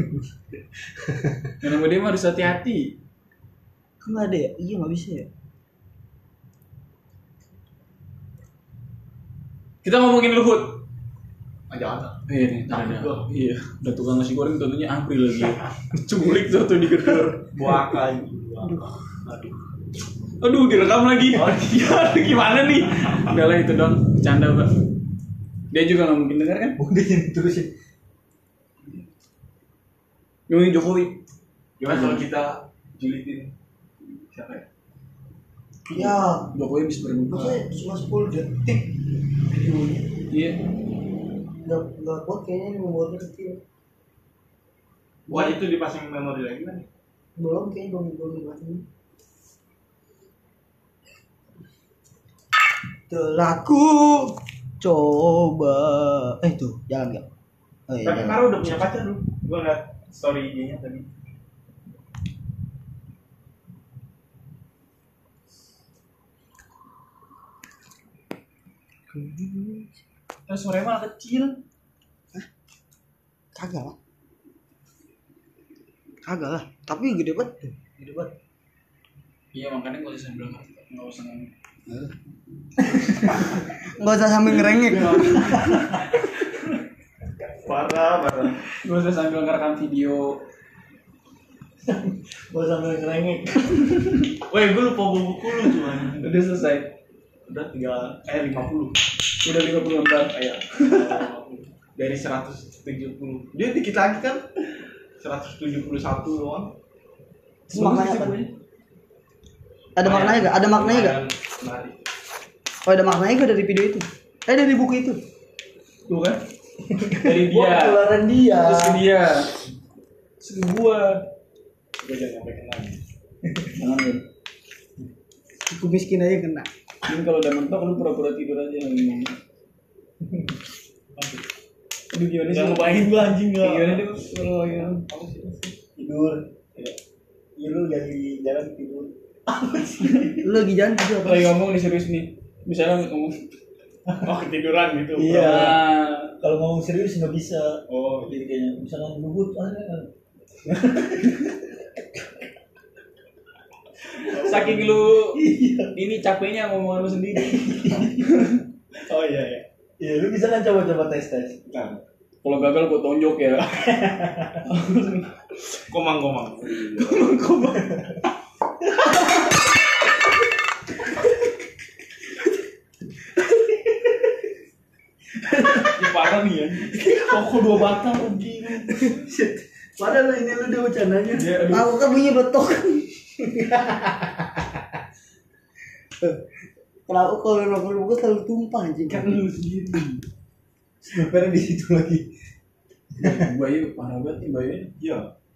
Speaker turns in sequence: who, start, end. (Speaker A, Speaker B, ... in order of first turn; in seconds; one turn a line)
Speaker A: 1.6-3.0
Speaker B: 4.0-5.3
Speaker A: 9.8-10.8
Speaker C: 11.7-13.3
Speaker A: 12.3-17.8
Speaker C: 17.5-19.5
Speaker B: 18.6-19.0
Speaker A: 20.4-24.7
Speaker C: 21.3-22.3
Speaker A: 25.7-26.8
Speaker D: 26.8-27.7
Speaker A: 30.5-31.2
Speaker C: 31.8-33.5
Speaker A: 31.9-32.2
Speaker C: 34.3-34.6
Speaker B: 35.9-36.5
Speaker A: 35.9-37.6
Speaker B: 37.3-40.1
Speaker A: 40.3-40.6
Speaker B: 41.6-43.6
Speaker B: 45.3-45.6
Speaker C: 45.3-46.9
Speaker B: 47.4-48.8
Speaker B: 53.1-57.3
Speaker B: 57.9-58.5
Speaker C: 58.0-61.1
Speaker B: 69.1-69.9
Speaker A: 70.5-71.6
Speaker B: 73.5-73.9
Speaker B: 76.2-78.3
Speaker A: 79.5-81.5
Speaker B: 81.9-82.1
Speaker B: 83.9-85.8
Speaker C: 84.9-85.7
Speaker D: 85.1-86.0
Speaker C: 87.6-88.6
Speaker A: 88.7-90.4
Speaker D: 91.8-94.2
Speaker C: 94.5-96.4
Speaker A: 96.2-96.9
Speaker C: 97.5-98.9
Speaker A: 99.4-100.3
Speaker C: 100.3-104.4
Speaker C: 105.2-106.7
Speaker B: 107.7-108.4
Speaker A: 107.7-108.5
Speaker B: 110.0-111.2
Speaker C: 110.0-112.0
Speaker B: 112.8-115.2
Speaker A: 116.1-116.4
Speaker A: 117.1-119.5
Speaker D: 117.4-119.1
Speaker A: 120.4-121.2
Speaker C: 122.0-123.0
Speaker A: 123.7-124.2
Speaker B: 125.7-126.7
Speaker A: 127.0-129.3
Speaker C: 131.1-131.4
Speaker A: 132.1-135.0
Speaker C: 132.5-135.8
Speaker D: 135.9-136.5
Speaker D: 137.6-140.4
Speaker B: 140.4-141.5
Speaker A: 141.2-143.4
Speaker C: 144.2-145.8
Speaker D: 145.2-145.8
Speaker A: 145.3-146.3
Speaker D: 146.4-150.1
Speaker C: 147.9-148.4
Speaker D: 150.6-151.7
Speaker C: 154.3-154.8
Speaker A: 154.3-155.4
Speaker D: 154.4-155.9
Speaker A: 155.9-158.5
Speaker D: 157.6-158.1
Speaker C: 159.0-159.7
Speaker D: 160.0-161.6
Speaker C: 161.7-162.0
Speaker A: 162.4-163.8
Speaker D: 163.7-164.6
Speaker A: 164.7-165.3
Speaker C: 165.9-167.3
Speaker A: 167.0-168.1
Speaker D: 175.6-175.9
Speaker C: 175.8-179.0
Speaker D: 177.3-181.5
Speaker C: 181.3-181.9
Speaker B: 181.7-183.1
Speaker D: 183.6-184.5
Speaker B: 187.1-189.4
Speaker C: 189.1-190.2
Speaker D: 191.0-192.3
Speaker A: 193.2-194.9
Speaker D: 193.2-193.5
Speaker C: 195.0-195.3